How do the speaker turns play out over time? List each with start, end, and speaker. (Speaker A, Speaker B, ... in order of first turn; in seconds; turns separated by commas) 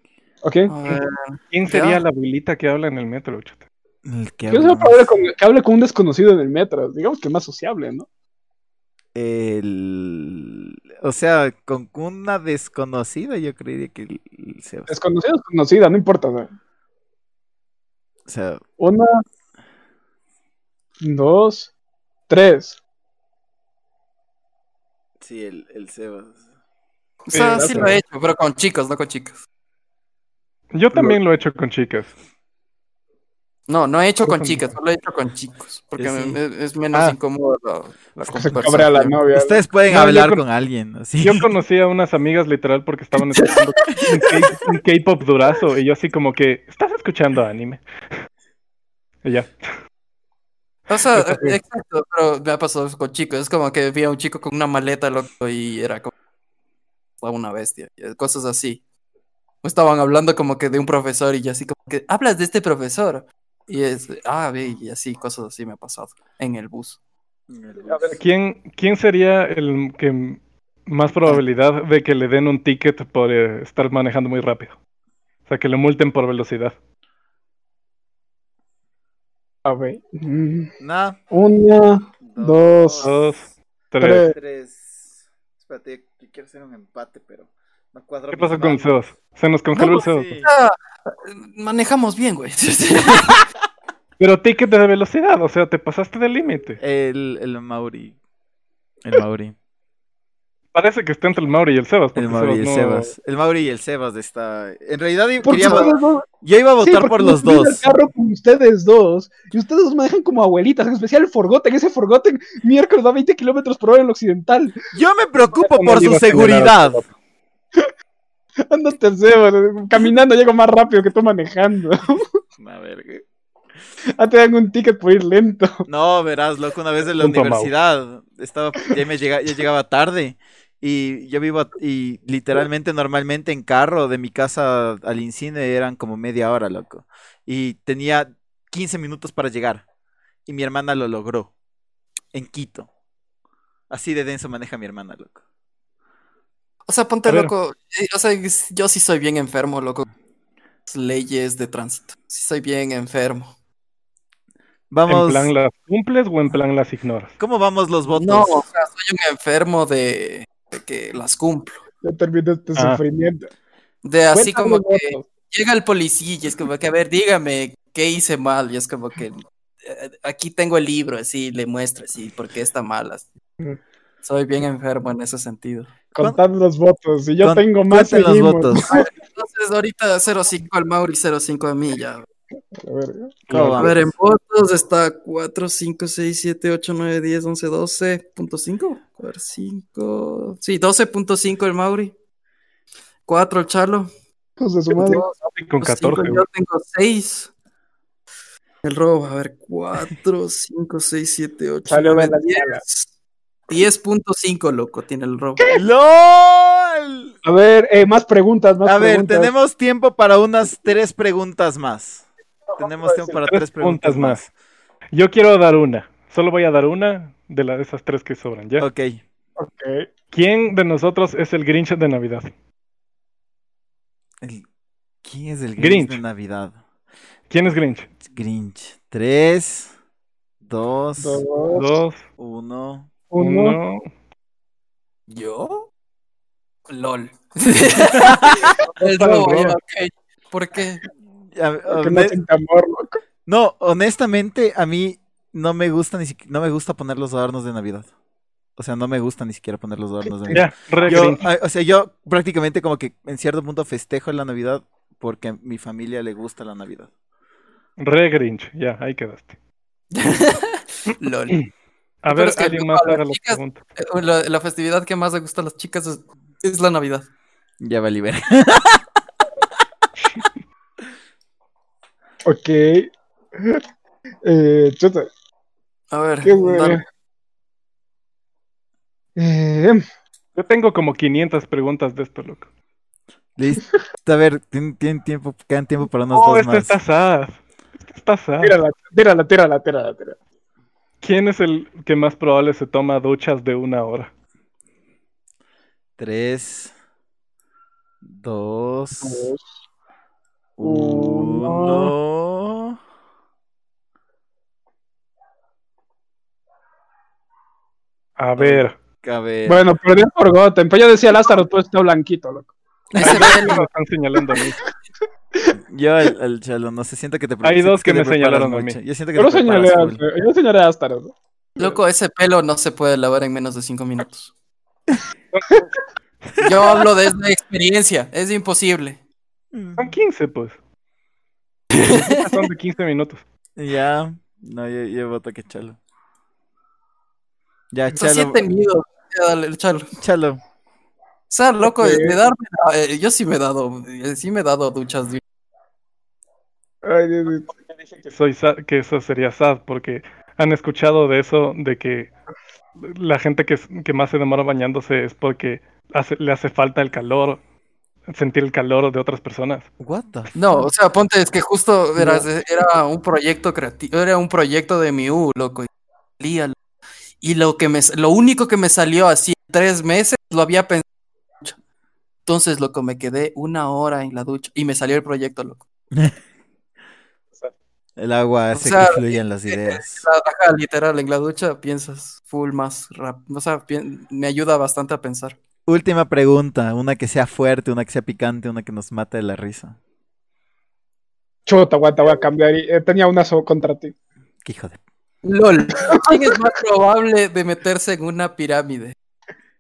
Speaker A: 0.4-0.7, Speaker B: 0.7-2.0, Speaker C: 1.5-3.6, Speaker D: 4.0-5.2, Speaker A: 4.5-8.1, Speaker D: 9.2-15.0, Speaker A: 14.9-16.5, Speaker D: 18.3-18.6, Speaker A: 18.8-19.2, Speaker A: 21.0-21.7, Speaker A: 22.3-22.8, Speaker D: 25.2-26.4, Speaker B: 27.3-29.4, Speaker C: 27.3-27.9, Speaker A: 27.4-28.0, Speaker C: 30.7-32.1, Speaker B: 33.7-39.2, Speaker C: 34.2-34.7, Speaker D: 36.0-36.4, Speaker A: 38.3-39.6, Speaker D: 39.3-41.5, Speaker C: 39.9-40.4, Speaker C: 41.2-47.8, Speaker B: 43.3-43.6, Speaker C: 49.2-49.5, Speaker B: 50.9-56.1, Speaker C: 51.1-51.6, Speaker B: 57.2-58.8, Speaker B: 59.6-67.0, Speaker D: 67.5-68.2, Speaker C: 67.9-74.8, Speaker C: 75.5-76.8, Speaker A: 79.7-80.7, Speaker D: 80.8-81.2, Speaker A: 81.3-83.1, Speaker D: 82.2-83.3, Speaker C: 83.0-84.3, Speaker A: 84.0-84.3, Speaker D: 84.2-88.9, Speaker C: 88.3-90.3, Speaker B: 89.8-93.4, Speaker D: 89.8-90.5, Speaker C: 94.2-96.8, Speaker D: 96.8-98.2, Speaker D: 99.0-99.5, Speaker C: 100.7-103.1, Speaker D: 102.2-107.8, Speaker A: 105.4-106.3, Speaker A: 106.8-114.8, Speaker D: 114.9-117.0, Speaker C: 115.7-117.1, Speaker A: 118.7-122.3, Speaker D: 122.6-123.2, Speaker A: 124.2-125.8, Speaker D: 125.9-139.8, Speaker C: 127.2-127.7, Speaker D: 140.5-141.5, Speaker D: 142.3-142.9, Speaker D: 143.9-145.4, Speaker B: 146.9-150.1, Speaker C: 147.3-147.5, Speaker B: 150.9-153.5, Speaker D: 154.9-155.5, Speaker C: 155.1-157.4, Speaker D: 157.4-158.7, Speaker B: 158.2-161.8, Speaker A: 162.0-163.5, Speaker C: 162.8-163.0, Speaker B: 164.0-173.3, Speaker A: 164.3-165.3, Speaker B: 174.2-175.9, Speaker A: 176.2-179.1, Speaker D: 177.4-179.0, Speaker B: 178.9-182.3, Speaker A: 182.8-183.8, Speaker D: 183.5-184.1, Speaker B: 183.7-192.1, Speaker B: 193.3-194.1, Speaker A: 194.6-195.2, Speaker B: 194.9-197.5, Speaker C: 195.3-196.4, Speaker B: 198.8-203.1, Speaker A: 201.9-202.8, Speaker B: 203.7-205.6, Speaker D: 205.7-207.3, Speaker A: 207.4-209.5, Speaker D: 208.8-212.3, Speaker A: 212.7-213.4, Speaker D: 212.8-214.5, Speaker C: 213.4-214.4, Speaker C: 215.1-218.9, Speaker D: 218.8-219.2, Speaker A: 219.6-220.1, Speaker C: 220.3-222.5, Speaker D: 225.2-226.8, Speaker C: 225.8-226.2, Speaker C: 227.5-228.1, Speaker D: 228.2-229.9, Speaker D: 230.6-231.4, Speaker A: 231.2-232.0, Speaker C: 231.8-232.2, Speaker D: 232.4-233.1, Speaker A: 233.3-233.8, Speaker C: 233.4-234.0, Speaker B: 235.3-235.9, Speaker B: 236.9-241.0, Speaker D: 238.2-238.6, Speaker C: 239.0-239.8, Speaker D: 241.6-242.4, Speaker A: 241.9-243.2, Speaker D: 243.5-248.1, Speaker D: 248.8-257.1, Speaker A: 250.5-251.3, Speaker C: 250.5-251.4, Speaker C: 258.0-259.5, Speaker B: 260.1-261.6, Speaker C: 262.2-263.8, Speaker B: 262.3-267.3, Speaker D: 267.8-269.0, Speaker A: 272.4-273.8, Speaker A: 274.4-275.3, Speaker B: 276.1-277.0, Speaker A: 276.4-277.0, Speaker A: 279.4-280.0, Speaker C: 280.6-282.7, Speaker D: 283.6-287.0, Speaker C: 286.3-288.8, Speaker A: 288.6-290.4, Speaker C: 291.2-294.3, Speaker D: 296.2-296.9, Speaker D: 298.2-299.5, Speaker A: 299.2-299.6, Speaker D: 300.8-303.0, Speaker A: 300.8-302.1, Speaker C: 308.4-308.9, Speaker D: 308.6-309.9, Speaker A: 309.7-313.7, Speaker B: 313.1-313.9, Speaker C: 313.2-314.8, Speaker D: 315.8-320.2, Speaker C: 317.6-319.0, Speaker A: 319.4-321.9, Speaker B: 321.8-324.5, Speaker C: 325.5-325.9, Speaker B: 326.6-329.2, Speaker D: 329.7-330.1, Speaker C: 330.0-330.8, Speaker B: 331.9-332.6, Speaker C: 332.0-333.4, Speaker D: 333.8-336.0, Speaker D: 337.9-338.6, Speaker B: 338.2-340.1, Speaker D: 340.2-340.6, Speaker B: 341.5-345.4, Speaker A: 341.8-342.4, Speaker A: 347.0-347.7, Speaker C: 348.0-352.3, Speaker C: 353.0-357.6, Speaker C: 358.3-359.9, Speaker D: 360.0-360.5, Speaker B: 360.6-365.9, Speaker A: 362.2-362.5, Speaker B: 366.4-366.8, Speaker B: 367.4-371.0, Speaker B: 372.5-375.8, Speaker D: 378.2-380.3, Speaker B: 378.8-385.6, Speaker D: 385.9-390.0, Speaker A: 391.7-394.1, Speaker D: 394.6-395.0, Speaker B: 395.4-399.1, Speaker A: 396.1-396.6